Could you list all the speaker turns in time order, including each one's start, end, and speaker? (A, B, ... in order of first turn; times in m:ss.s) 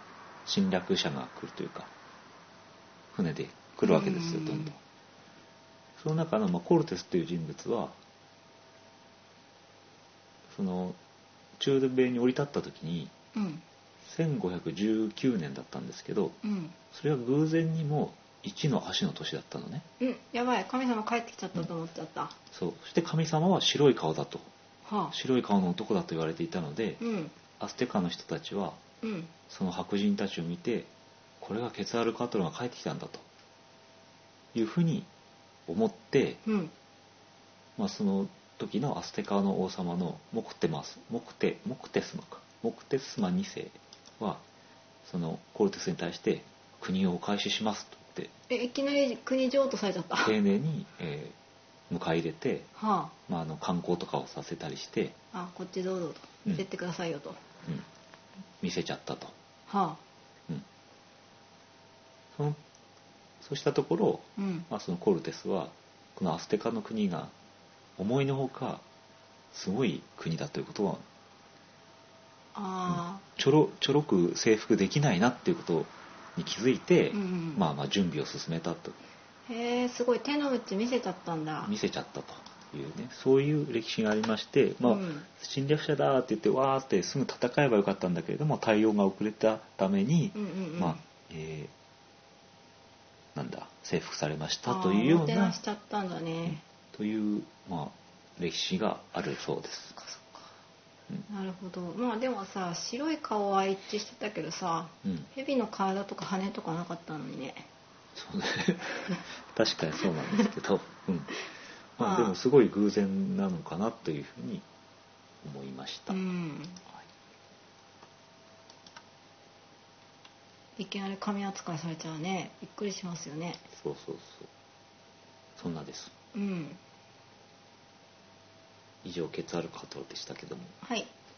0:00.4-0:01.9 A
0:03.1-0:04.8 A
0:03.8-0:04.7 B
0:06.0-0:08.0 A
0:10.5-0:11.0 A
0:11.6-0:13.1 A
0:13.3-0:13.6 B
0:14.0-0:16.4 A
0:16.4-0:16.8 B
0:16.9-0:19.8 A
0:20.0-0:22.3 B
0:22.5-0:24.5 A
0:24.8-0:25.1 B
0:25.1-0:27.0 A
0:27.0-0:27.3 B
0:27.6-0:28.8 A
0:29.0-0:29.3 B
0:29.5-0:33.2 A
0:34.5-0:35.1 A
0:35.7-0:36.4 A
0:36.4-0:36.7 B
0:37.8-0:44.4 A
0:45.0-0:48.3 A
0:48.5-0:50.3 B
0:50.2-0:51.4 A
0:51.9-0:52.7 A
0:52.8-0:53.1 B
0:53.3-0:55.2 A
0:55.3-0:57.4 B
0:58.6-0:59.3 A
0:59.7-1:00.0 B
1:02.3-1:02.6 A
1:03.4-1:07.3 A
1:04.4-1:04.7 B
1:08.0-1:08.8 A
1:09.5-1:11.0 A
1:12.5-1:13.2 B
1:12.9-1:19.0 A
1:17.1-1:17.6 B
1:19.5-1:21.7 B
1:21.6-1:31.7 A
1:24.8-1:25.3 B
1:30.3-1:31.0 B
1:33.3-1:35.6 A
1:34.6-1:36.6 B
1:36.5-1:40.0 A
1:40.0-1:40.5 B
1:41.3-1:47.7 B
1:48.1-1:51.3 A
1:52.0-1:54.6 A
1:52.0-1:52.4 B
1:55.4-1:56.2 A
1:56.1-1:56.8 B
2:00.8-2:03.6 B
2:03.7-2:04.5 A
2:05.6-2:06.1 A
2:06.3-2:06.8 B
2:09.0-2:10.8 A
2:10.8-2:11.1 B